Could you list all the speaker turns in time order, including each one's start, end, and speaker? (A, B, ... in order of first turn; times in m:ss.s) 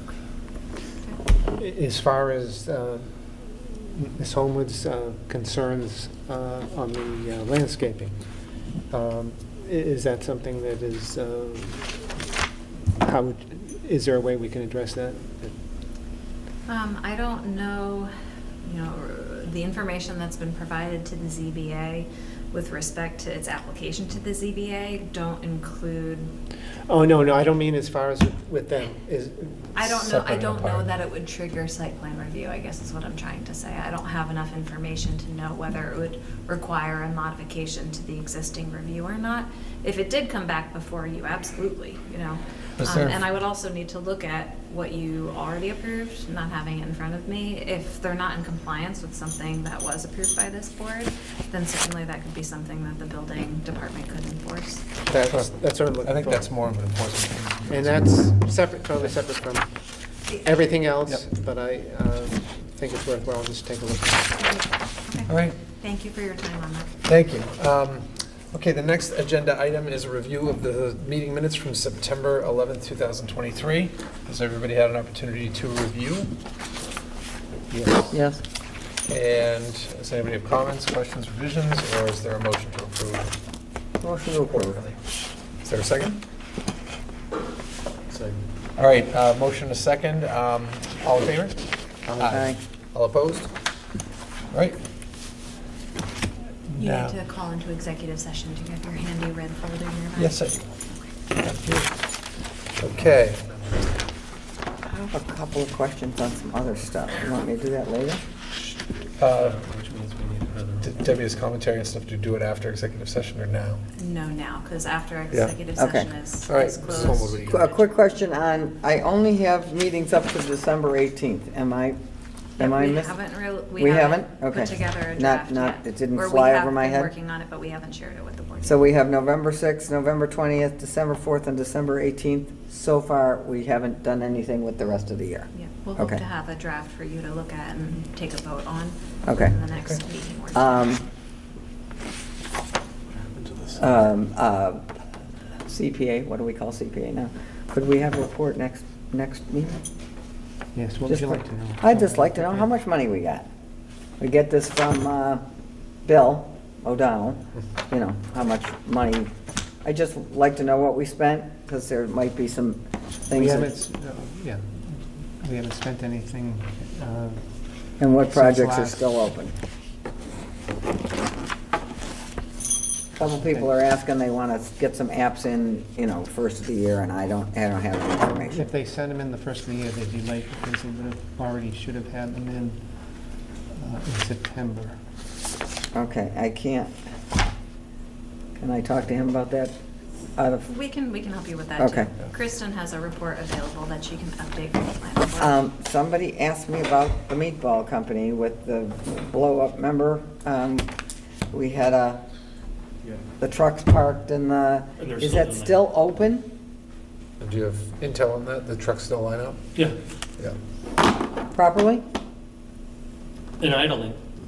0:01.6-0:08.1 A
0:08.9-0:12.0 A
0:13.0-0:15.5 A
0:16.7-0:18.1 B
0:18.6-0:26.3 B
0:26.9-0:29.7 A
0:29.7-0:54.8 B
0:29.8-0:30.9 C
0:42.8-0:43.2 C
0:55.1-0:56.5 A
0:56.0-0:58.3 C
0:57.7-0:59.7 A
1:00.3-1:00.5 B
1:00.4-1:04.4 A
1:04.4-1:06.9 B
1:05.3-1:05.6 C
1:07.0-1:16.3 C
1:17.7-1:18.1 A
1:18.1-1:18.4 D
1:19.1-1:23.4 C
1:24.0-1:24.8 D
1:24.5-1:25.0 C
1:25.6-1:26.2 C
1:28.8-1:31.6 C
1:32.1-1:33.5 C
1:32.2-1:32.6 D
1:34.5-1:34.8 C
1:36.7-1:37.2 C
1:36.8-1:41.0 B
1:40.2-1:40.6 C
1:41.3-1:42.0 C
1:42.8-1:43.6 C
1:44.8-1:48.2 D
1:49.2-1:49.6 C
1:49.4-1:50.9 E
1:50.8-1:53.8 C
1:54.0-1:57.7 B
1:55.3-1:55.6 C
1:55.8-1:56.1 D
1:56.5-1:57.6 C
1:57.4-2:02.0 D
2:02.6-2:03.2 D
2:02.6-2:08.9 B
2:03.8-2:07.1 D
2:08.6-2:16.2 D
2:15.5-2:20.8 B
2:19.2-2:19.5 D
2:20.5-2:21.0 D
2:23.5-2:23.8 C
2:23.8-2:24.8 D
2:25.6-2:29.8 D
2:30.7-2:32.6 A
2:31.1-2:33.4 D
2:34.2-2:35.4 D
2:36.0-2:39.3 D
2:39.8-2:43.7 D
2:43.3-2:47.5 A
2:48.0-2:49.5 D
2:48.3-2:49.0 A
2:53.2-2:58.6 D
2:53.2-2:53.6 A
2:58.3-3:02.8 A
3:03.7-3:05.0 A
3:05.9-3:06.9 D
3:08.6-3:09.8 D
3:10.4-3:10.7 D
3:10.7-3:15.6 B
3:11.8-3:12.1 D
3:15.4-3:20.9 D
3:21.5-3:22.2 D
3:23.4-3:26.5 D
3:25.0-3:25.8 E
3:27.4-3:29.6 C
3:31.5-3:32.0 D
3:33.6-3:34.2 E